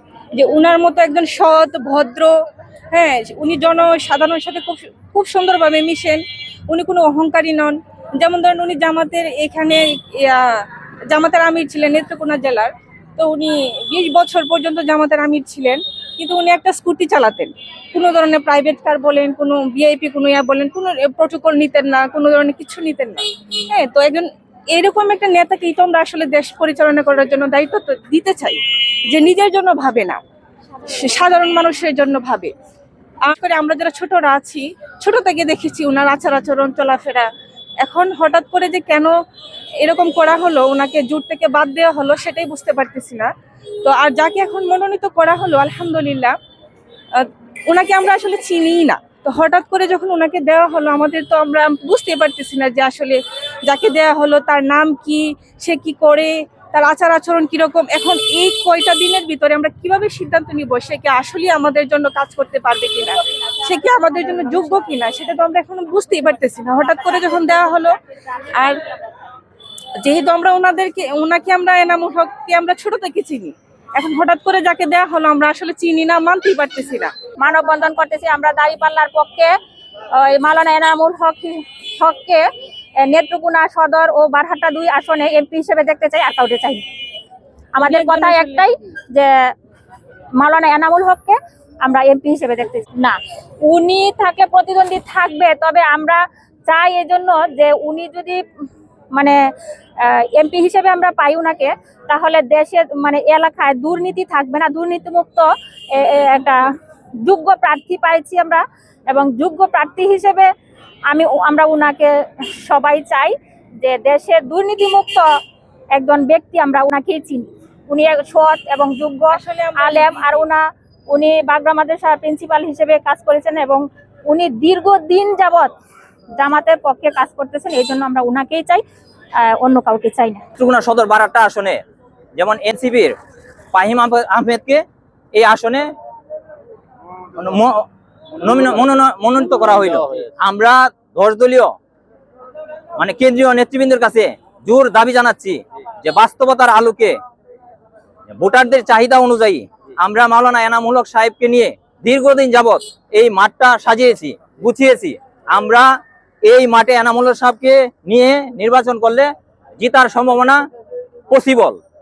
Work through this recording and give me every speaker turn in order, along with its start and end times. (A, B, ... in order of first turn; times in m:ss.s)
0:00.3-0:02.4 A
0:02.9-0:30.2 A
0:30.8-0:32.5 A
0:33.2-0:37.3 A
0:37.8-0:39.1 A
0:39.8-0:43.3 A
0:43.8-0:46.4 A
0:47.1-1:08.0 A
1:08.5-1:08.8 A
1:10.0-1:17.1 A
1:17.4-1:19.5 B
1:20.1-1:22.4 B
1:23.0-1:26.8 B
1:27.7-1:29.5 B
1:27.8-1:28.8 A
1:30.4-1:38.4 B
1:40.0-1:46.6 B
1:47.2-1:50.5 B
1:51.1-1:55.3 B
1:55.9-2:05.7 B
1:59.3-2:00.4 A
2:06.4-2:08.8 B
2:09.4-2:10.4 B
2:10.6-2:11.8 C
2:12.4-2:13.2 C
2:13.7-2:14.8 C
2:15.3-2:15.9 C
2:17.3-2:17.8 C
2:18.4-2:21.7 C
2:23.0-2:27.2 C
2:28.3-2:35.9 C
2:36.4-2:40.6 C
2:41.3-2:41.8 C